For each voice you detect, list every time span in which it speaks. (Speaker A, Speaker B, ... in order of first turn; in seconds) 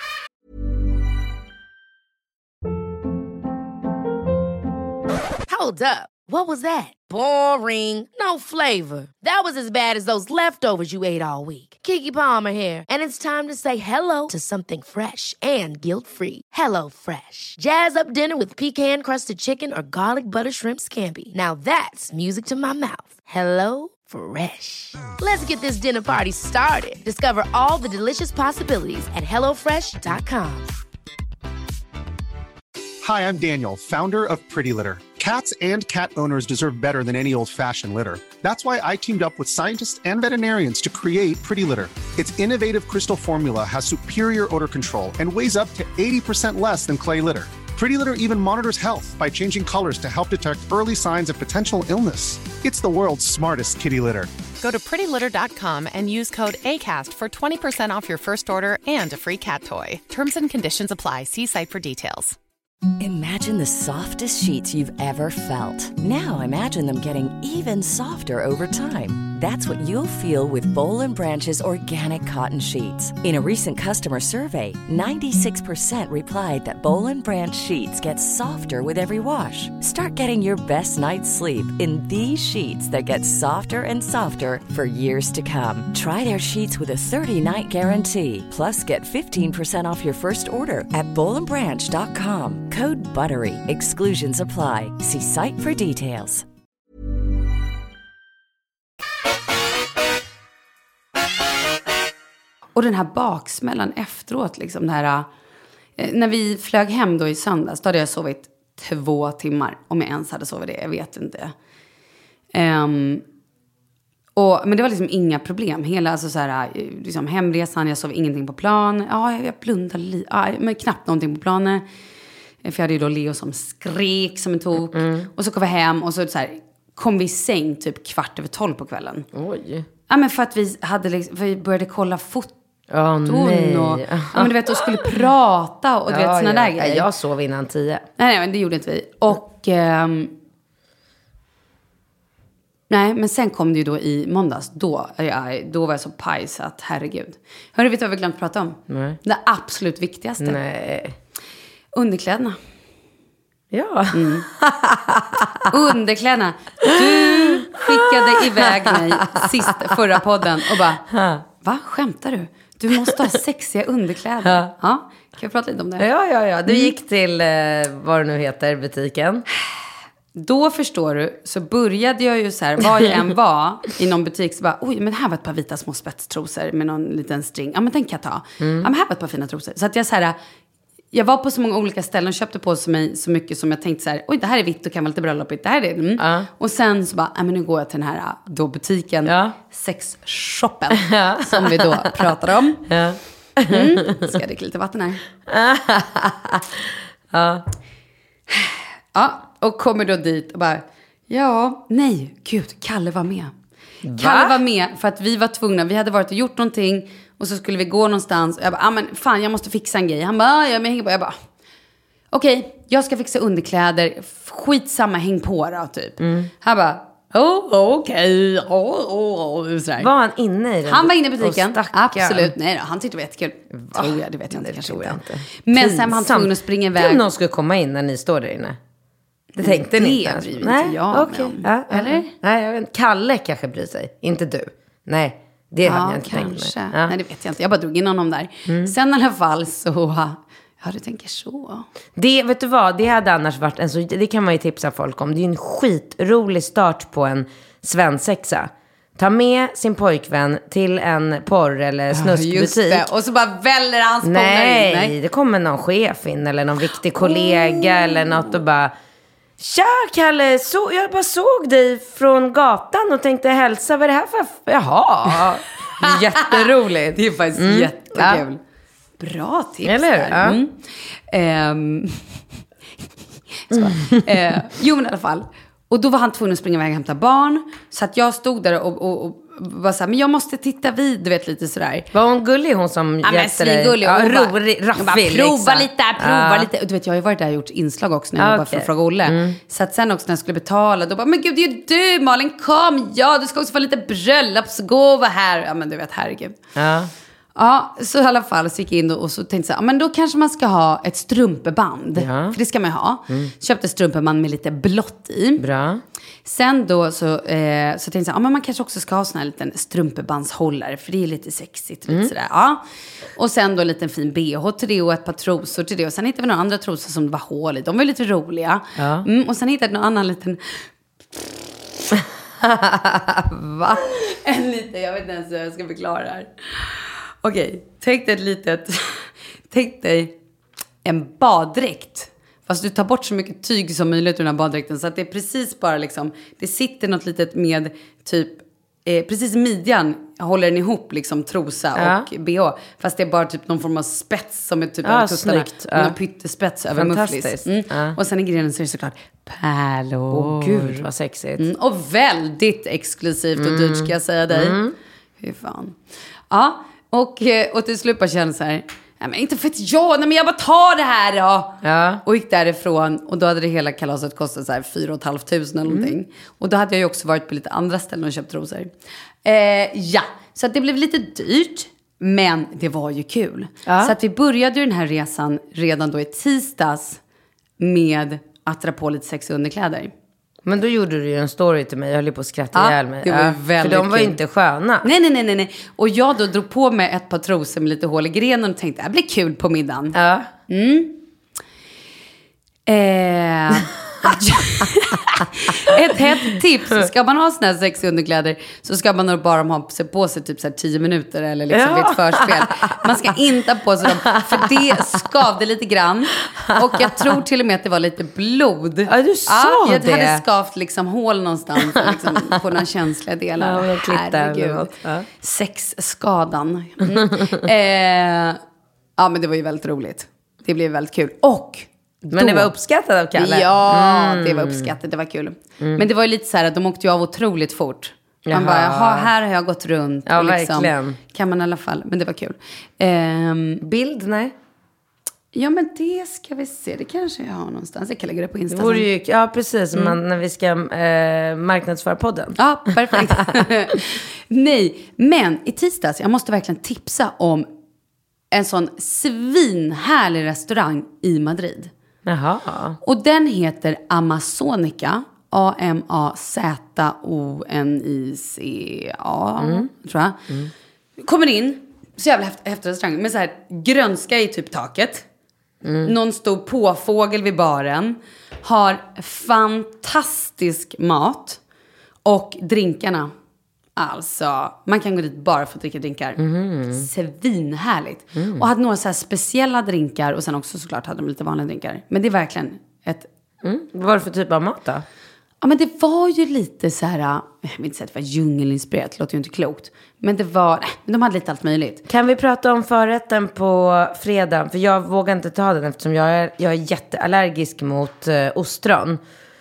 Speaker A: 5.5-30.7
Speaker B: 33.0-54.3
Speaker C: 54.6-62.4
Speaker D: 63.0-96.5
Speaker E: 102.8-105.3, 106.0-111.5, 112.5-113.2, 114.3-121.8, 122.6-129.3, 130.1-132.5, 133.2-137.1, 138.2-140.3, 142.9-150.6, 151.9-152.6, 154.1-154.5, 155.7-161.1, 161.6-166.1, 166.7-166.9, 170.3-180.4, 181.1-192.9, 193.7-195.2, 198.5-203.5, 204.1-211.4, 212.3-220.1, 220.8-227.2, 229.5-232.3, 235.8-241.9, 252.1-255.1, 257.2-258.4, 266.0-266.5, 267.1-268.6, 269.2-272.4, 273.6-282.1, 283.2-296.6, 297.6-305.6, 306.4-312.8, 313.4-320.9, 323.9-330.3, 331.0-351.1, 351.6-354.8, 355.4-356.0, 356.5-368.9, 369.4-377.2, 377.8-380.1, 382.7-384.4, 385.0-390.1, 390.7-391.2, 392.9-418.6, 419.2-422.7, 423.3-433.8, 435.5-439.1, 442.6-447.7, 448.5-451.9, 453.0-460.4, 461.2-465.2, 466.0-471.6, 472.2-473.3, 473.9-483.3, 485.6-492.0
Speaker F: 124.9-125.3, 129.3-129.8, 132.9-135.2, 136.1-138.1, 148.9-149.2, 150.4-151.2, 153.7-155.7, 156.8-160.0, 161.0-161.4, 164.4-164.7, 166.0-169.4, 178.6-178.9, 186.2-186.5, 189.2-189.6, 190.9-192.2, 192.9-194.2, 195.5-197.6, 204.0-204.6, 216.2-216.5, 220.0-222.5, 223.7-228.8, 229.6-237.1, 238.7-238.9, 242.2-253.1, 254.2-258.9, 259.6-268.4, 269.8-270.6, 273.7-274.3, 282.1-286.7, 288.4-289.6, 296.8-297.1, 302.1-302.6, 305.6-306.0, 319.0-319.2, 322.6-324.0, 341.9-342.3, 345.0-346.2, 346.9-348.2, 350.3-351.6, 353.6-354.9, 361.8-362.2, 365.9-366.1, 373.9-374.1, 380.6-385.1, 390.1-390.5, 401.7-403.1, 404.0-405.2, 406.9-407.2, 409.1-410.4, 411.9-412.3, 413.6-415.2, 417.2-417.6, 422.3-424.9, 428.4-429.3, 430.2-431.2, 433.8-434.5, 438.7-442.6, 443.1-443.6, 452.2-453.0, 459.6-459.9, 465.8-466.1, 476.4-477.1, 478.3-478.6, 483.6-485.0, 492.1-499.2